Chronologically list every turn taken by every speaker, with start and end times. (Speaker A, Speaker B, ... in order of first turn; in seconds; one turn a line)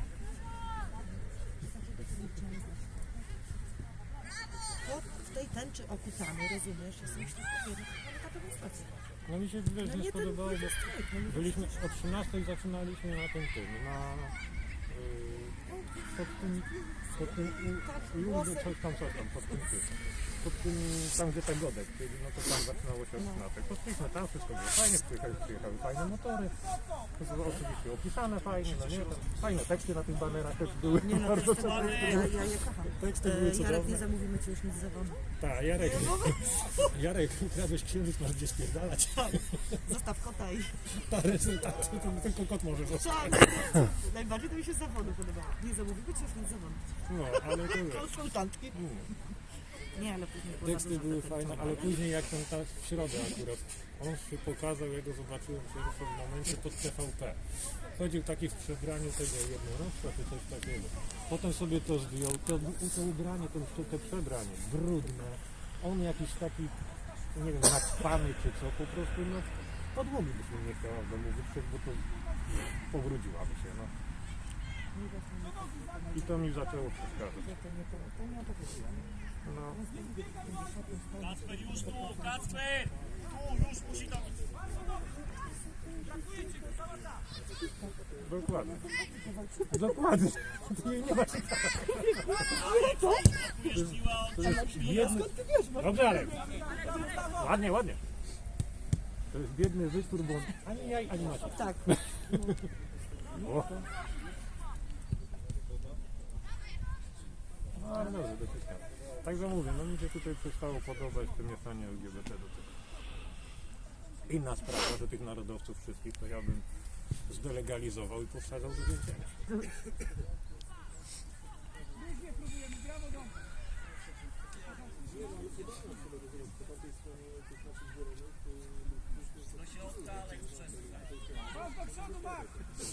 Speaker A: 1.0-3.1
Speaker A: 4.8-9.0
Speaker B: 9.3-19.9
Speaker A: 9.8-11.8
Speaker A: 15.7-18.8
Speaker B: 20.4-26.6
Speaker A: 23.2-23.4
Speaker B: 27.2-32.3
Speaker A: 31.0-36.9
Speaker C: 31.1-32.3
Speaker B: 33.0-34.1
Speaker B: 35.4-39.4
Speaker A: 39.8-40.8
Speaker B: 40.9-43.7
Speaker A: 42.9-48.8
Speaker B: 47.1-48.1
Speaker B: 48.8-49.1
Speaker A: 49.9-52.0
Speaker B: 50.6-57.4
Speaker B: 57.9-66.8
Speaker B: 67.3-73.9
Speaker A: 74.9-76.4
Speaker B: 76.1-77.5
Speaker A: 77.3-79.2
Speaker B: 79.4-79.8
Speaker A: 79.7-82.6
Speaker C: 81.2-84.5
Speaker A: 87.8-90.2
Speaker B: 88.2-88.8
Speaker B: 89.7-92.3
Speaker A: 91.7-93.5
Speaker C: 92.5-95.2
Speaker B: 93.7-96.4
Speaker A: 94.4-96.5
Speaker B: 97.3-98.0
Speaker B: 99.3-102.2
Speaker A: 101.5-102.6
Speaker B: 103.4-103.9
Speaker B: 107.8-112.8
Speaker B: 114.3-116.7
Speaker B: 117.2-119.4
Speaker C: 129.6-131.7